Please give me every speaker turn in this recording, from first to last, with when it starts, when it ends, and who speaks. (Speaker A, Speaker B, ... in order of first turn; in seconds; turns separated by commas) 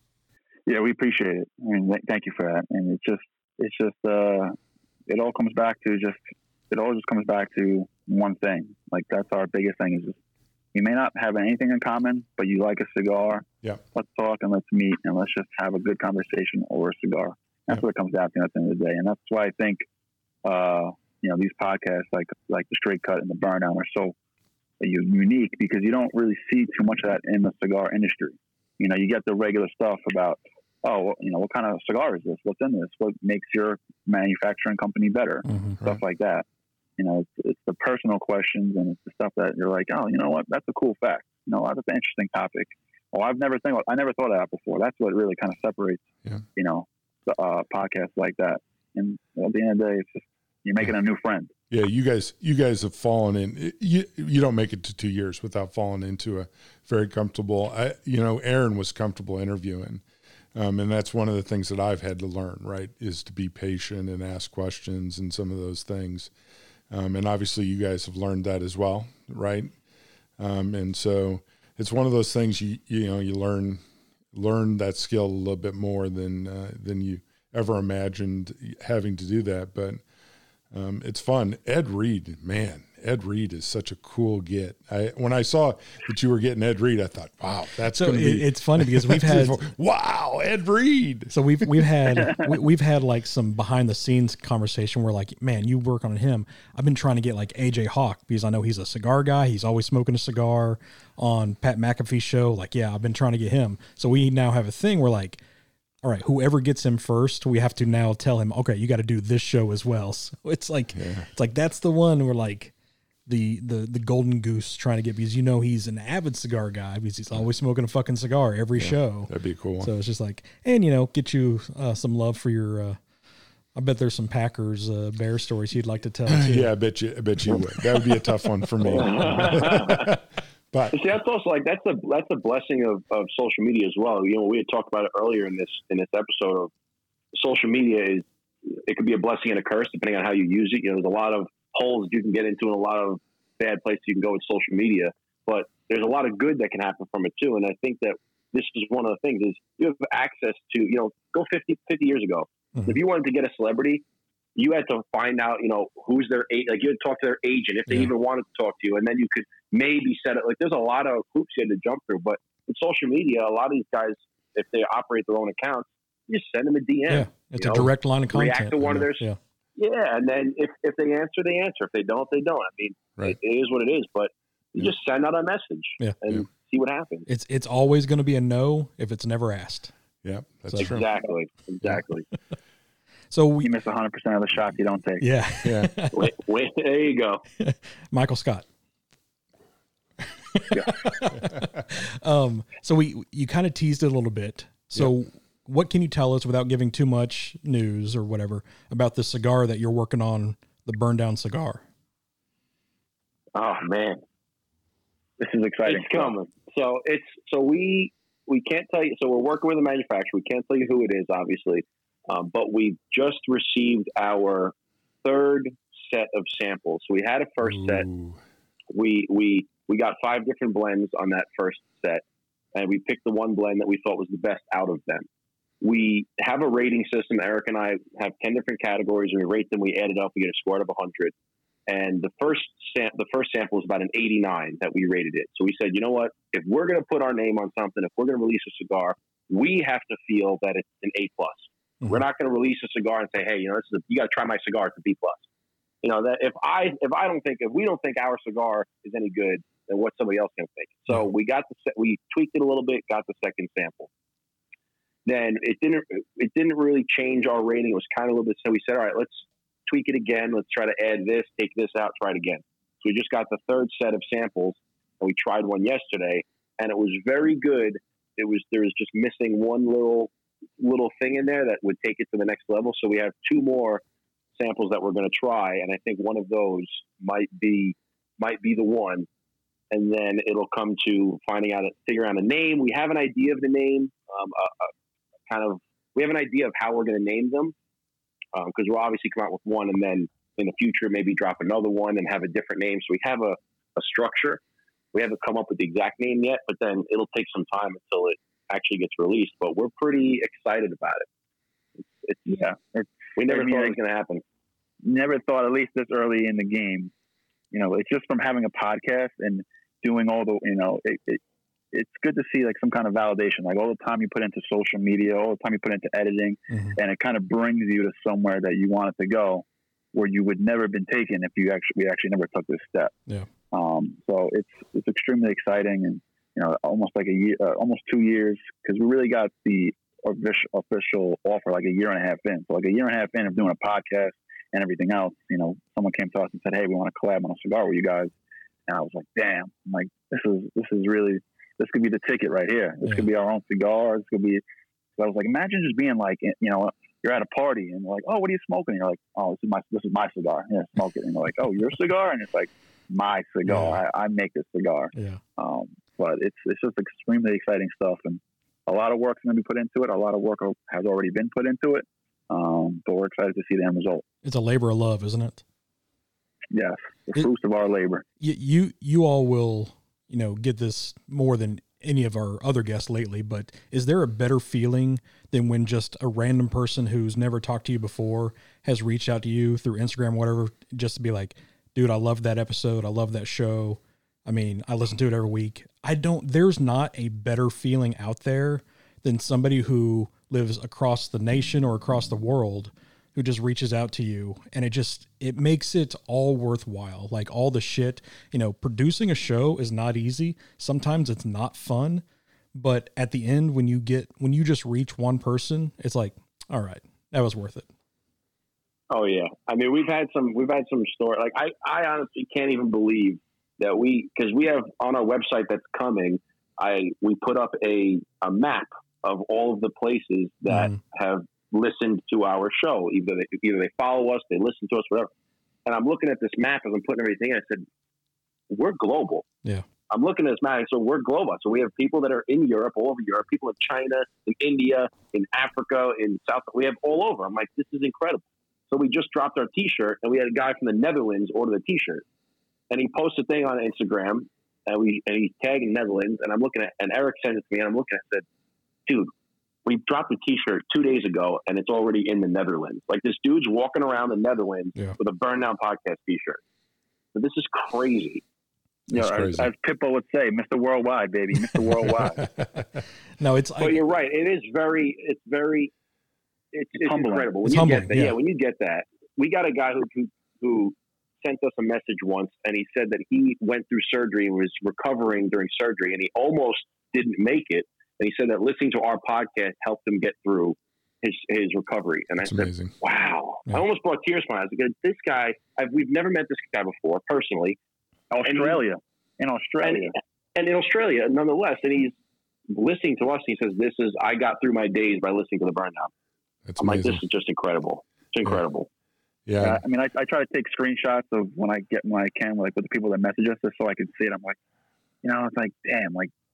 Speaker A: 0.7-4.6, Speaker A: 5.1-10.2, Speaker A: 10.7-19.8, Speaker A: 20.4-24.1, Speaker A: 24.8-36.4, Speaker B: 35.4-35.8, Speaker A: 37.0-46.0, Speaker A: 46.5-51.5, Speaker C: 51.7-60.0, Speaker C: 60.5-66.3, Speaker C: 66.9-69.7, Speaker C: 70.4-73.8, Speaker C: 74.3-80.0, Speaker C: 80.7-91.8, Speaker B: 87.9-89.6, Speaker B: 91.3-105.4, Speaker B: 106.0-112.7, Speaker C: 111.0-111.2, Speaker B: 113.3-123.0, Speaker C: 118.8-119.9, Speaker B: 123.7-126.7, Speaker C: 126.3-131.0, Speaker D: 128.9-130.2, Speaker B: 129.0-129.6, Speaker D: 130.9-136.7, Speaker D: 137.3-154.0, Speaker D: 154.6-177.3, Speaker B: 167.1-169.4, Speaker C: 167.7-167.9, Speaker B: 177.3-179.9, Speaker C: 180.2-181.1, Speaker B: 180.7-180.9, Speaker D: 180.8-182.2, Speaker B: 183.3-183.7, Speaker A: 183.6-185.2, Speaker B: 185.2-186.3, Speaker C: 185.6-185.9, Speaker D: 186.1-187.4, Speaker B: 187.6-188.7, Speaker B: 190.5-201.8, Speaker D: 203.5-204.2, Speaker A: 205.4-206.3, Speaker D: 205.8-218.1, Speaker C: 217.7-218.4, Speaker D: 218.9-222.2, Speaker D: 222.7-225.3, Speaker D: 225.8-231.3, Speaker D: 231.9-245.4, Speaker D: 246.0-254.1, Speaker D: 255.2-274.0, Speaker D: 274.6-279.3, Speaker D: 279.9-284.9, Speaker D: 285.5-287.7, Speaker D: 288.5-294.6, Speaker D: 295.1-301.2, Speaker D: 302.1-302.4, Speaker A: 302.4-304.0, Speaker D: 303.4-304.4, Speaker A: 305.0-307.1, Speaker A: 307.7-311.4, Speaker A: 311.9-323.1, Speaker B: 316.7-317.0, Speaker A: 323.7-338.3, Speaker A: 338.9-344.6, Speaker A: 345.2-364.2, Speaker B: 353.6-354.0, Speaker B: 355.1-355.4, Speaker B: 364.4-365.6, Speaker A: 366.7-368.2, Speaker B: 368.4-402.2, Speaker B: 402.7-407.9, Speaker D: 409.1-425.3, Speaker B: 420.7-421.0, Speaker D: 425.9-427.9, Speaker D: 428.7-429.4, Speaker D: 430.1-442.2, Speaker D: 442.9-448.4, Speaker D: 449.8-456.6, Speaker D: 457.3-458.4, Speaker A: 459.1-462.4, Speaker C: 459.1-459.7, Speaker C: 462.1-462.8, Speaker B: 463.4-464.0, Speaker D: 463.8-465.9, Speaker D: 466.7-487.8, Speaker A: 467.0-467.5, Speaker B: 467.6-468.4, Speaker C: 482.4-482.9, Speaker A: 488.3-490.1, Speaker D: 488.4-488.8, Speaker D: 489.8-492.1, Speaker D: 492.7-496.1, Speaker C: 496.6-497.2, Speaker D: 496.8-498.9, Speaker C: 499.5-499.8, Speaker A: 499.6-504.6, Speaker A: 505.2-506.3